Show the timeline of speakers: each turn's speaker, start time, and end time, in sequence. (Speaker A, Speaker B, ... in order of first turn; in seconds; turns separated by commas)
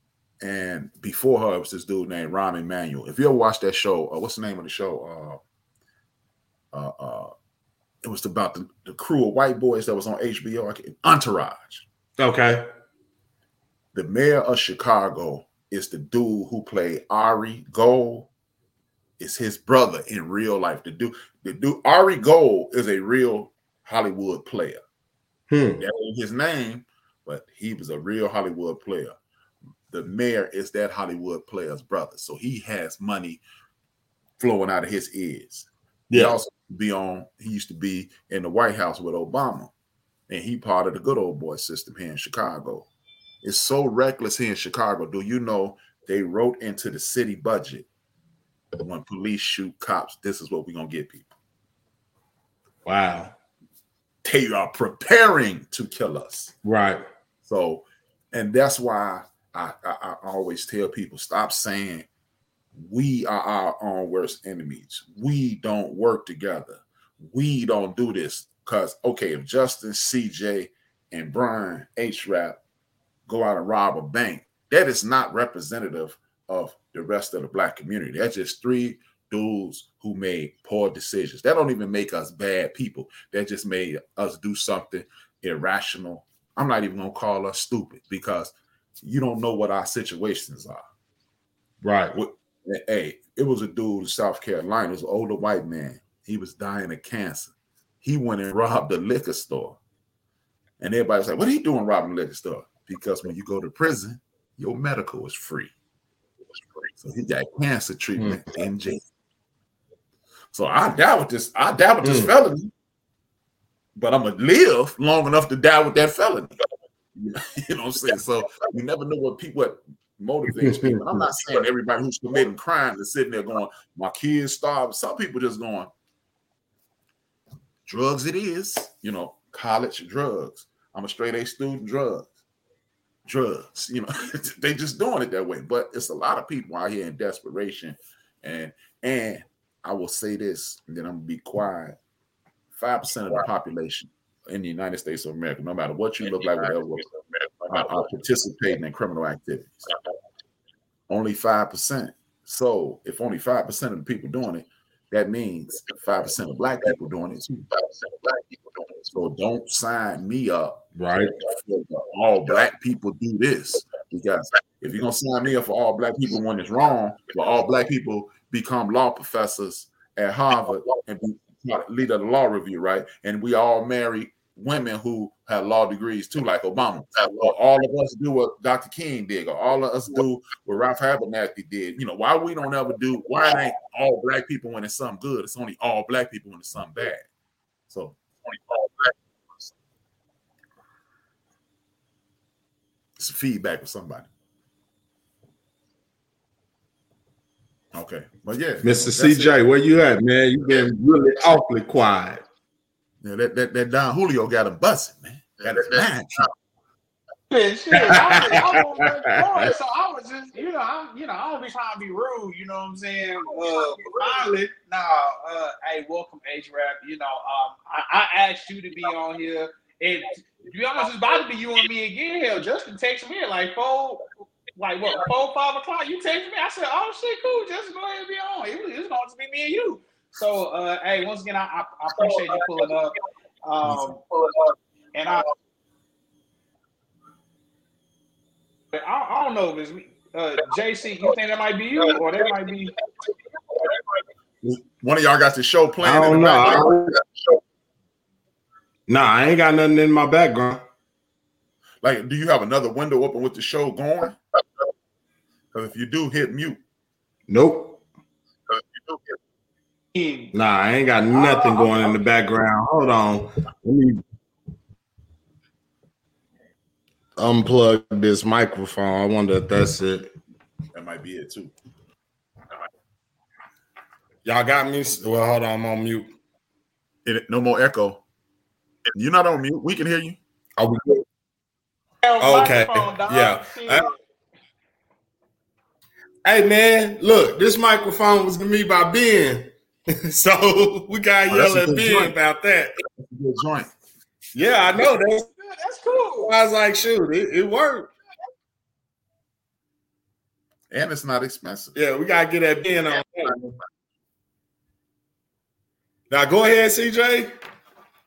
Speaker A: 0.4-5.4, Speaker A: 6.7-7.3, Speaker A: 8.0-11.9, Speaker B: 12.2-12.7, Speaker A: 13.9-18.3, Speaker A: 19.2-24.8, Speaker B: 25.5-25.8, Speaker A: 25.8-29.2, Speaker A: 29.9-33.4, Speaker A: 34.4-39.7, Speaker B: 36.1-36.4, Speaker A: 40.3-42.9, Speaker A: 43.4-47.9, Speaker A: 48.7-51.3, Speaker B: 52.9-53.3, Speaker A: 54.2-56.5, Speaker B: 56.6-57.0, Speaker A: 57.4-62.1, Speaker A: 62.8-72.6, Speaker A: 73.3-90.9, Speaker B: 91.8-92.1, Speaker A: 92.1-99.8, Speaker A: 100.8-105.7, Speaker A: 107.0-109.1, Speaker A: 110.5-112.7, Speaker B: 112.0-112.3, Speaker A: 114.0-116.5, Speaker A: 117.2-125.9, Speaker B: 120.5-121.2, Speaker A: 127.9-132.3, Speaker A: 133.3-142.0, Speaker A: 142.8-147.1, Speaker A: 147.7-149.9, Speaker A: 151.1-157.7, Speaker A: 159.1-187.3, Speaker B: 161.0-161.3, Speaker A: 187.9-189.1, Speaker A: 193.2-194.3, Speaker A: 197.9-199.6, Speaker B: 198.8-202.4, Speaker A: 203.2-206.5, Speaker C: 207.5-234.2, Speaker B: 207.9-209.4, Speaker C: 235.1-235.5, Speaker C: 238.9-242.9, Speaker A: 244.6-247.1, Speaker B: 246.0-247.1, Speaker B: 249.1-250.8, Speaker A: 252.0-254.4, Speaker A: 255.7-256.8, Speaker B: 257.5-258.0, Speaker C: 260.1-260.5, Speaker B: 260.5-264.2, Speaker C: 261.4-262.2, Speaker B: 267.4-270.3, Speaker A: 270.9-271.7, Speaker B: 274.4-276.3, Speaker A: 277.2-278.2, Speaker A: 279.1-280.4, Speaker B: 280.8-281.2, Speaker C: 282.2-284.1, Speaker B: 282.4-284.1, Speaker B: 286.4-292.9, Speaker A: 291.5-292.3, Speaker A: 293.2-293.9, Speaker B: 294.5-295.5, Speaker C: 295.6-296.5, Speaker B: 296.4-298.1, Speaker A: 300.9-302.0, Speaker B: 301.9-303.6, Speaker B: 306.3-307.5